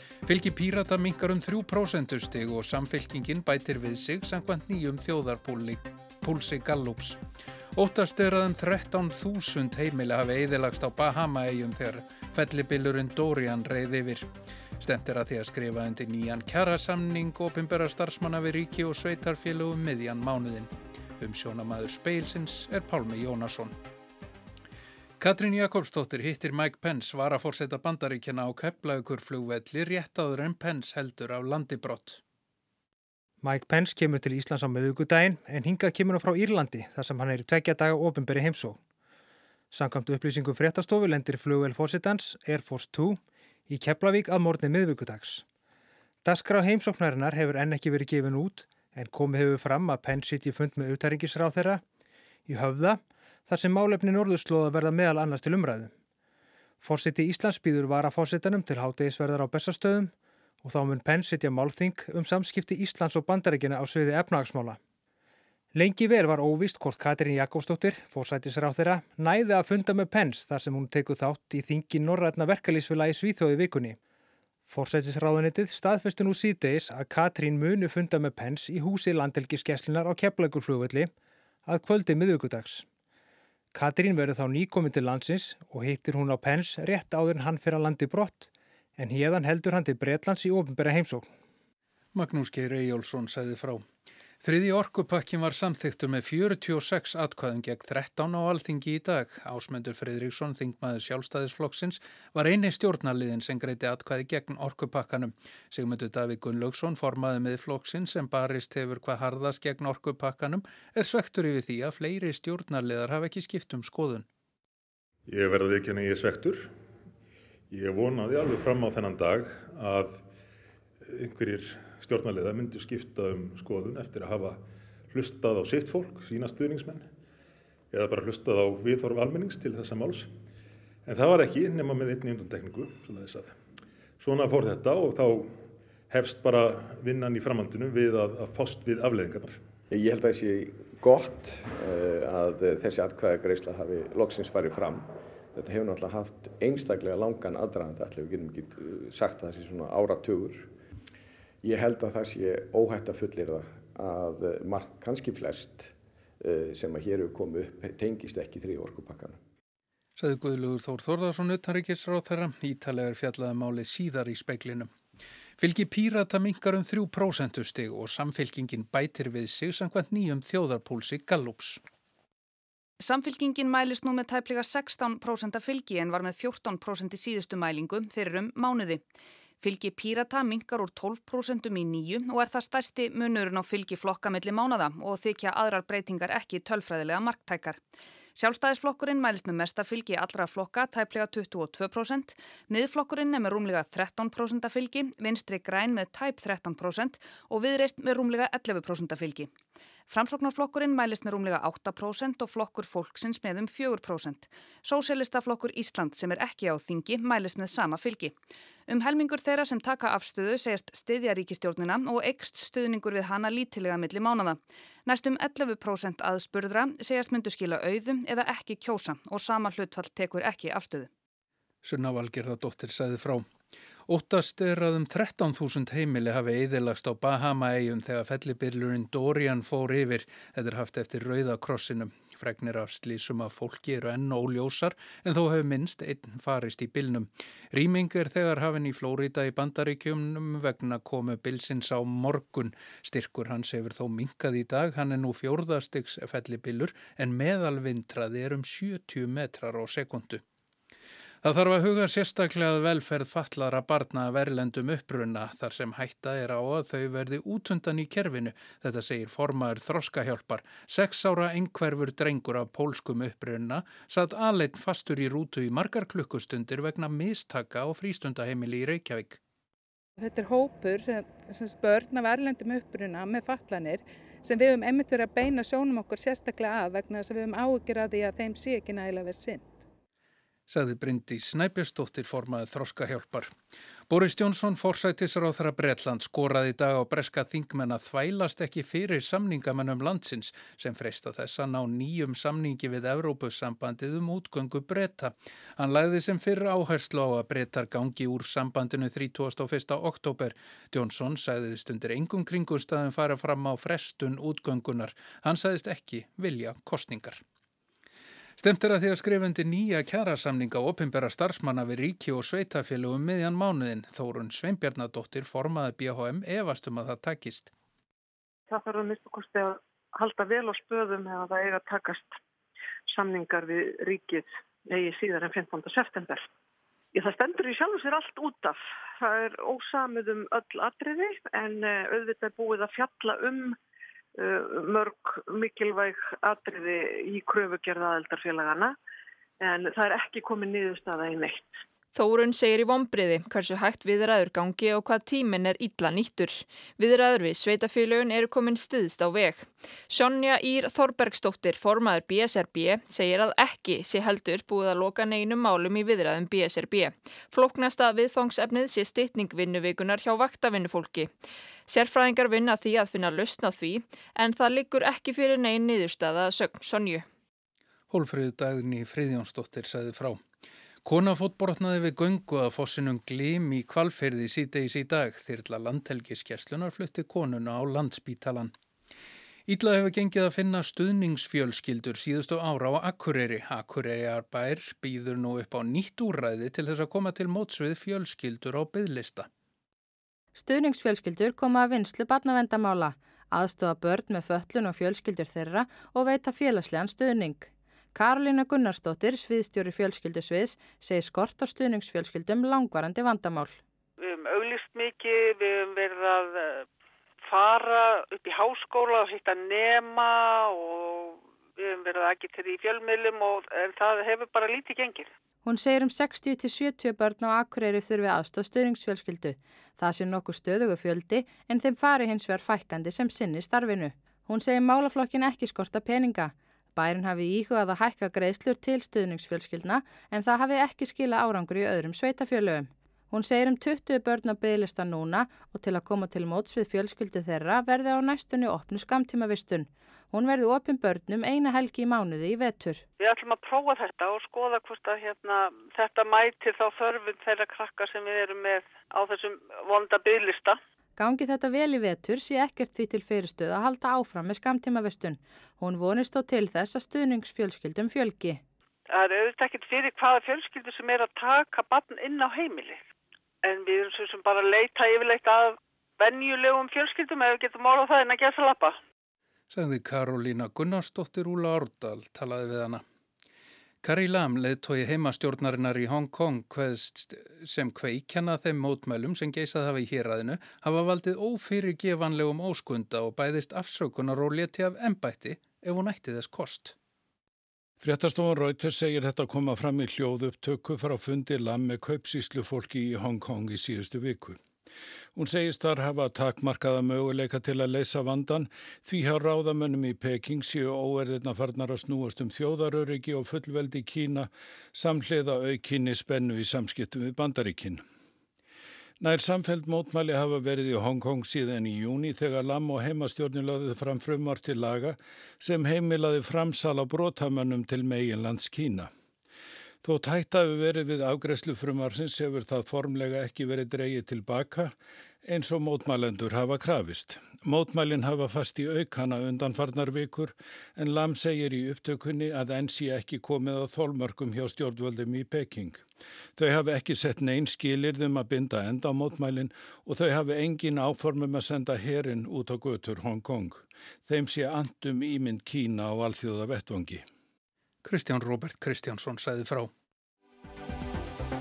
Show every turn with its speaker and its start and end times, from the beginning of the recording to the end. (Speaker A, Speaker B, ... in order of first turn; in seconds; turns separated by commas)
Speaker A: 0.2-7.2, Speaker A: 7.8-14.3, Speaker A: 14.8-23.8, Speaker A: 25.2-32.2, Speaker B: 33.4-38.8, Speaker B: 39.7-45.5, Speaker B: 46.2-51.8, Speaker B: 52.5-55.9, Speaker B: 56.8-64.8, Speaker B: 65.7-74.0, Speaker B: 74.7-81.1, Speaker B: 81.7-82.9, Speaker B: 83.7-91.3, Speaker A: 92.1-93.8, Speaker A: 94.4-114.3, Speaker C: 115.3-116.7, Speaker C: 117.7-120.2, Speaker C: 121.0-127.1, Speaker C: 127.9-130.3, Speaker C: 131.1-133.6, Speaker C: 134.2-135.6, Speaker C: 136.1-139.6, Speaker D: 139.9-150.7, Speaker D: 151.6-159.4, Speaker A: 160.2-164.9, Speaker A: 165.6-171.8, Speaker E: 173.0-179.0, Speaker E: 179.6-187.8, Speaker E: 188.4-199.5, Speaker E: 200.1-208.3, Speaker E: 208.9-221.1, Speaker A: 221.8-223.4, Speaker A: 224.1-250.4, Speaker A: 251.4-269.4, Speaker F: 270.2-279.7, Speaker A: 280.7-283.5, Speaker A: 284.1-307.4, Speaker A: 308.6-317.7, Speaker G: 318.7-322.4, Speaker G: 323.1-326.5, Speaker G: 327.1-333.8, Speaker G: 334.4-338.9, Speaker G: 339.6-341.8, Speaker H: 342.1-361.3, Speaker H: 361.9-367.3, Speaker A: 368.1-370.4, Speaker A: 371.1-378.7, Speaker A: 379.7-389.5, Speaker I: 390.6-403.8, Speaker J: 404.2-406.9, Speaker J: 407.4-415.3, Speaker I: 415.6-443.1, Speaker J: 443.2-450.8, Speaker I: 451.2-458.6, Speaker J: 459.1-463.0, Speaker J: 463.6-469.0, Speaker A: 469.7-473.0, Speaker A: 474.0-486.9, Speaker K: 488.0-494.6, Speaker K: 495.4-508.0, Speaker K: 509.2-519.1, Speaker K: 520.0-524.9, Speaker K: 525.4-536.0, Speaker K: 536.6-547.2, Speaker A: 548.0-549.9